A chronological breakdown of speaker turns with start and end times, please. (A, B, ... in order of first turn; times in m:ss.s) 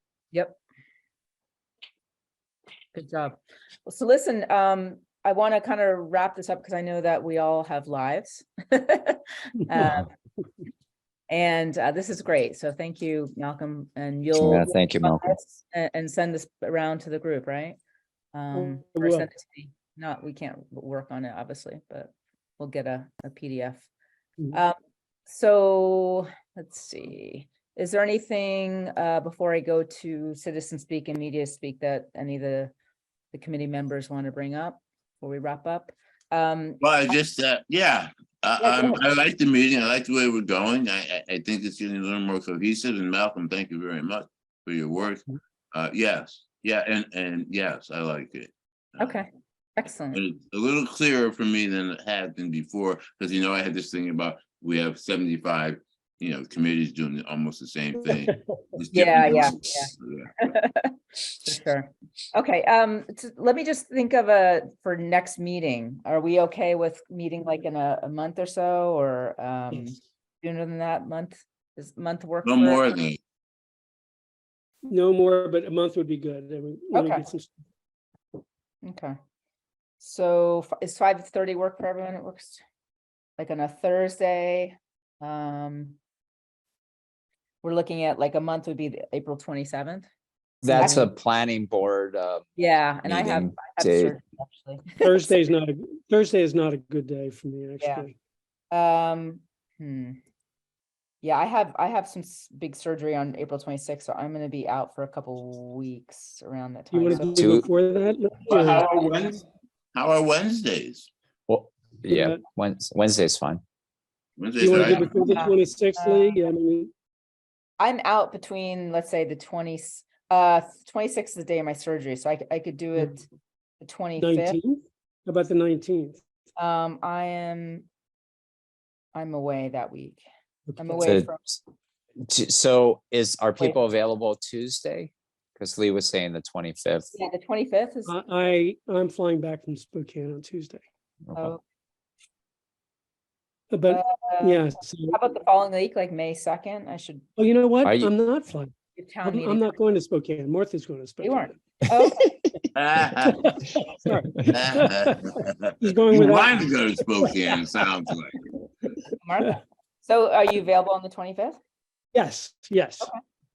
0:00.3-0:00.6 A
0:02.9-0:10.1 A
0:11.3-0:17.8 A
0:14.3-0:15.4 B
0:18.3-0:23.9 A
0:18.5-0:19.3 C
0:25.3-0:32.7 A
0:33.3-0:37.2 A
0:36.8-0:49.2 D
0:38.6-0:39.0 A
0:49.0-0:50.2 A
0:50.1-1:00.3 D
0:58.0-0:58.6 C
0:58.9-1:00.9 A
1:01.4-1:12.9 A
1:12.4-1:13.2 D
1:14.9-1:17.5 C
1:16.9-1:17.2 A
1:18.8-1:19.1 A
1:20.0-1:22.6 A
1:23.4-1:26.0 A
1:27.6-1:30.1 A
1:30.6-1:32.5 B
1:30.7-1:31.0 C
1:30.7-1:31.1 A
1:32.6-1:35.3 A
1:33.0-1:34.2 B
1:35.0-1:38.1 C
1:37.8-1:38.1 A
1:38.7-1:40.2 A
1:41.2-1:47.6 A
1:46.9-1:48.9 C
1:47.4-1:47.6 B
1:48.5-1:49.4 D
1:49.9-1:51.1 D
1:51.5-1:53.6 B
1:52.1-1:52.4 C
1:54.4-1:55.2 D
1:54.6-1:56.9 C
1:54.7-1:56.4 A
1:57.8-2:03.2 A
2:03.8-2:04.6 A
2:04.2-2:06.2 C
2:06.6-2:07.8 A
2:09.1-2:10.2 A
2:10.7-2:11.2 C
2:10.8-2:11.6 A
2:11.0-2:11.4 B
2:12.2-2:17.1 B
2:17.1-2:18.2 A
2:18.0-2:20.8 C
2:21.3-2:21.5 B
2:21.4-2:21.6 A
2:23.7-2:25.2 C
2:23.9-2:27.2 A
2:27.4-2:28.7 C
2:27.8-2:28.1 B
2:29.0-2:29.7 A
2:29.2-2:31.5 C
2:31.2-2:32.3 A
2:32.0-2:32.3 B
2:32.7-2:33.5 D
2:33.3-2:37.3 C
2:34.5-2:38.7 D
2:39.2-2:41.6 A
2:42.1-2:43.1 C